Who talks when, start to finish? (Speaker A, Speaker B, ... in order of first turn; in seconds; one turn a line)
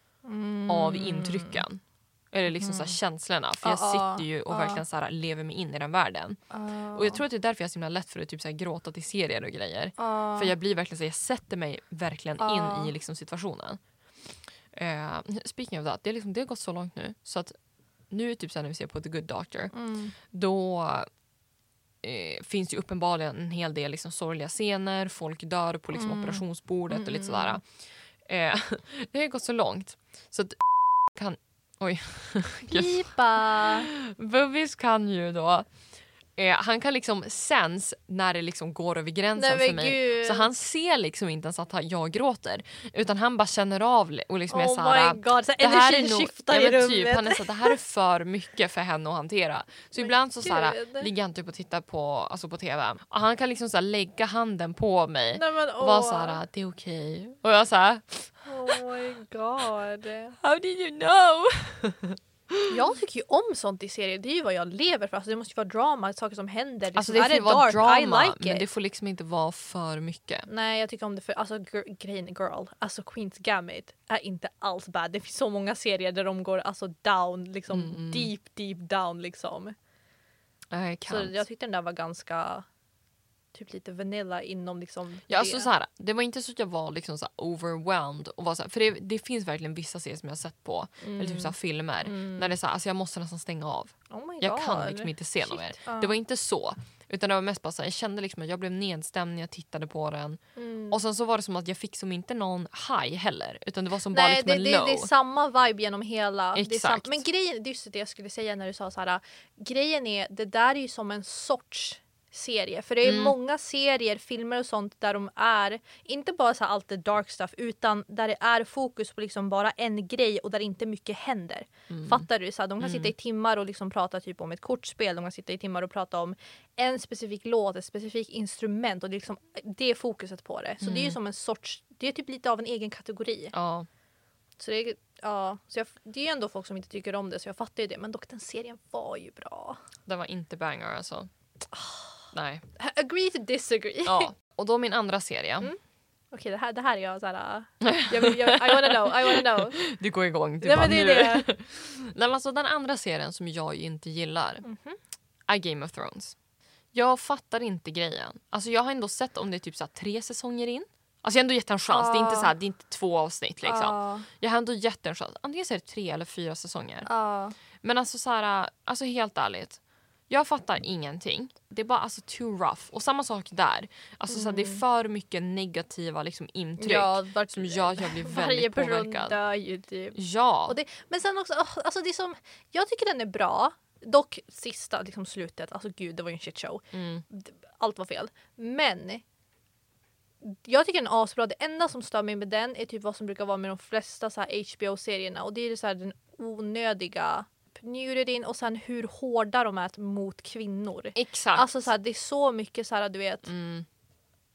Speaker A: 0.2-1.6
Speaker B: 0.7-6.4
Speaker A: 2.5-3.0
Speaker A: 3.6-4.8
Speaker A: 6.5-7.2
Speaker B: 6.9-13.8
Speaker A: 10.0-10.5
Speaker A: 12.4-12.9
Speaker B: 14.7-17.5
Speaker B: 18.1-19.7
Speaker A: 19.7-20.1
Speaker B: 20.3-21.1
Speaker B: 22.0-27.6
Speaker A: 25.9-27.6
Speaker B: 28.2-35.7
Speaker A: 32.7-33.9
Speaker B: 36.4-58.8
Speaker A: 39.4-40.5
Speaker A: 44.5-47.8
Speaker A: 50.0-51.1
Speaker A: 55.3-56.4
Speaker A: 58.4-60.4
Speaker B: 60.4-62.7
Speaker A: 62.7-68.7
Speaker B: 66.9-70.5
Speaker A: 70.5-79.8
Speaker B: 77.7-78.3
Speaker B: 80.7-81.4
Speaker A: 81.1-82.7
Speaker A: 83.5-85.7
Speaker B: 85.3-100.4
Speaker A: 91.0-92.5
Speaker A: 94.1-96.1
Speaker A: 100.5-101.0
Speaker B: 100.9-105.1
Speaker A: 104.1-133.5
Speaker B: 106.5-107.2
Speaker B: 113.0-113.3
Speaker B: 121.9-122.2
Speaker B: 122.8-123.1
Speaker B: 130.8-131.2
Speaker B: 133.5-133.9
Speaker A: 134.6-139.8
Speaker B: 140.1-141.3
Speaker A: 141.7-142.2
Speaker B: 142.3-142.6
Speaker A: 142.8-144.3
Speaker B: 144.1-145.7
Speaker A: 146.3-149.8
Speaker B: 147.8-154.6
Speaker A: 150.6-151.5
Speaker A: 154.6-155.0
Speaker B: 155.5-156.3
Speaker B: 156.9-167.1
Speaker A: 161.9-162.5
Speaker A: 163.6-164.3
Speaker A: 167.1-167.6
Speaker B: 167.8-179.4
Speaker A: 174.3-174.8
Speaker A: 176.8-189.2
Speaker B: 180.1-180.8
Speaker B: 186.9-187.2
Speaker A: 190.4-203.5
Speaker B: 201.1-201.9
Speaker B: 203.4-203.8